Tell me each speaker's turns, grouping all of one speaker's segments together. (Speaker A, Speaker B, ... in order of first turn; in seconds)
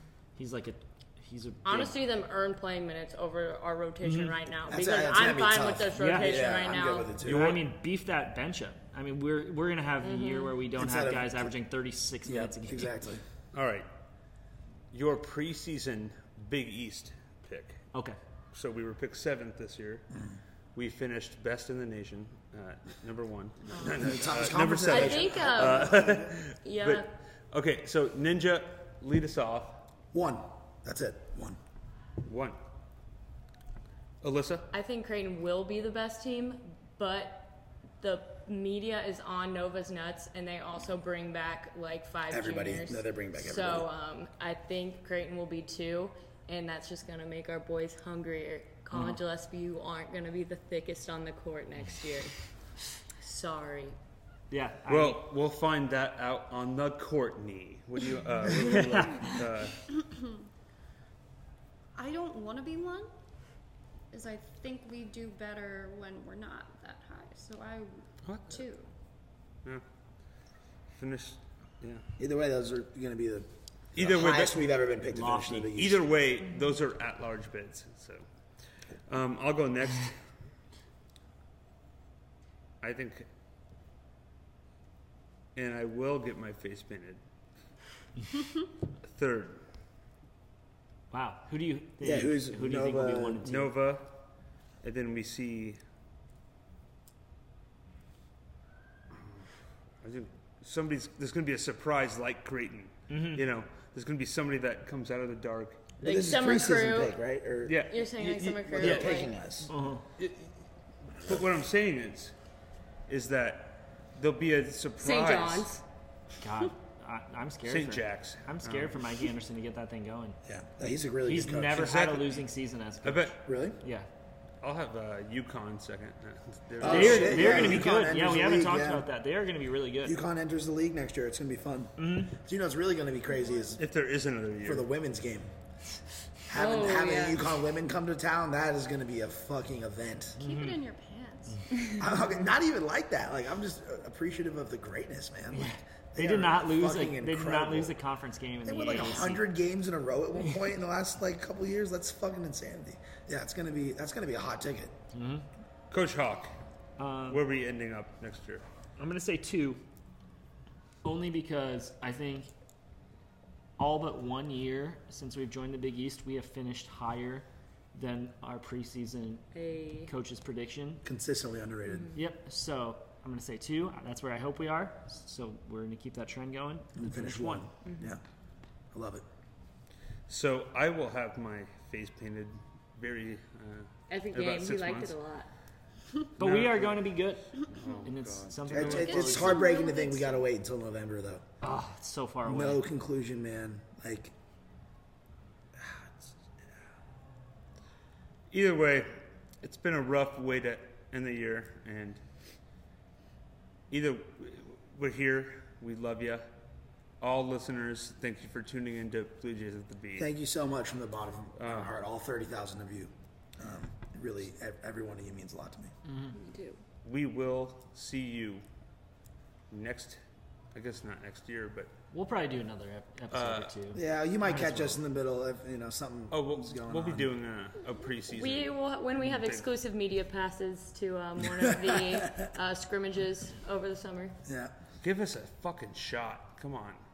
Speaker A: 0.4-1.9, 4.0-4.3, 6.0-6.4, 7.2-13.0, 48.9-49.2, 54.5-55.2, 58.5-59.5, 75.1-75.7, 91.1-93.7, 103.1-103.4, 109.7-110.1, 116.4-120.4, 121.2-124.1, 126.8-130.2, 132.0-132.4, 140.4-140.8, 145.5-149.5, 155.1-155.4, 157.0-157.4, 159.0-159.8, 161.0-162.5, 163.8-169.5, 170.0-171.0, 172.1-177.7, 186.4-189.6, 191.6-192.8, 216.1-216.4, 222.1-225.0
Speaker B: 1.6-7.1, 10.0-10.6, 23.7-24.0, 24.9-26.1, 26.6-27.1, 34.7-52.4, 53.2-54.0, 106.0-107.1, 107.9-109.3, 115.0-115.8, 136.5-137.5, 169.5-170.1, 184.1-185.5, 216.4-216.8, 228.3-234.4
Speaker C: 4.7-7.6, 10.7-11.5, 12.2-13.2, 23.8-26.4, 30.1-31.6, 42.3-43.9, 72.2-76.0, 92.0-93.4, 106.0-107.9, 108.6-109.7, 120.4-121.9, 123.4-123.8, 126.8-129.1, 130.0-133.8, 134.6-135.5, 136.5-140.4, 142.0-148.0, 148.6-154.9, 171.0-172.1, 177.0-178.2, 178.9-179.2, 188.7-191.4, 192.4-194.3, 195.8-196.1, 210.2-215.9, 223.9-227.3, 231.4-232.5, 234.4-234.7
Speaker D: 7.2-7.6, 13.5-13.9, 14.9-17.9, 18.5-20.1, 20.7-29.8, 32.2-32.6, 34.2-34.7, 54.9-59.8, 68.2-68.6, 70.9-72.0, 73.9-74.6, 75.5-78.2, 79.1-80.2, 82.8-83.3, 85.5-87.2, 89.1-89.6, 93.4-94.1, 94.8-95.8, 100.0-105.9, 107.6-109.2, 110.2-110.5, 111.1-112.3, 113.1-115.7, 117.7-119.2, 121.7-122.4, 123.0-123.4, 124.6-127.9, 133.8-134.9, 155.9-156.5, 157.3-158.6, 180.3-185.1, 186.4-187.1, 187.6-189.5, 198.5-202.2, 203.9-206.5, 207.2-210.3, 211.6-211.9, 217.0-218.6, 219.7-220.2, 220.7-221.9, 223.3-223.7, 226.3-228.7, 229.3-229.6, 235.0-237.0
Speaker E: 59.1-59.4, 59.9-60.4, 61.9-63.1, 64.1-68.9, 140.4-141.9, 189.0-190.4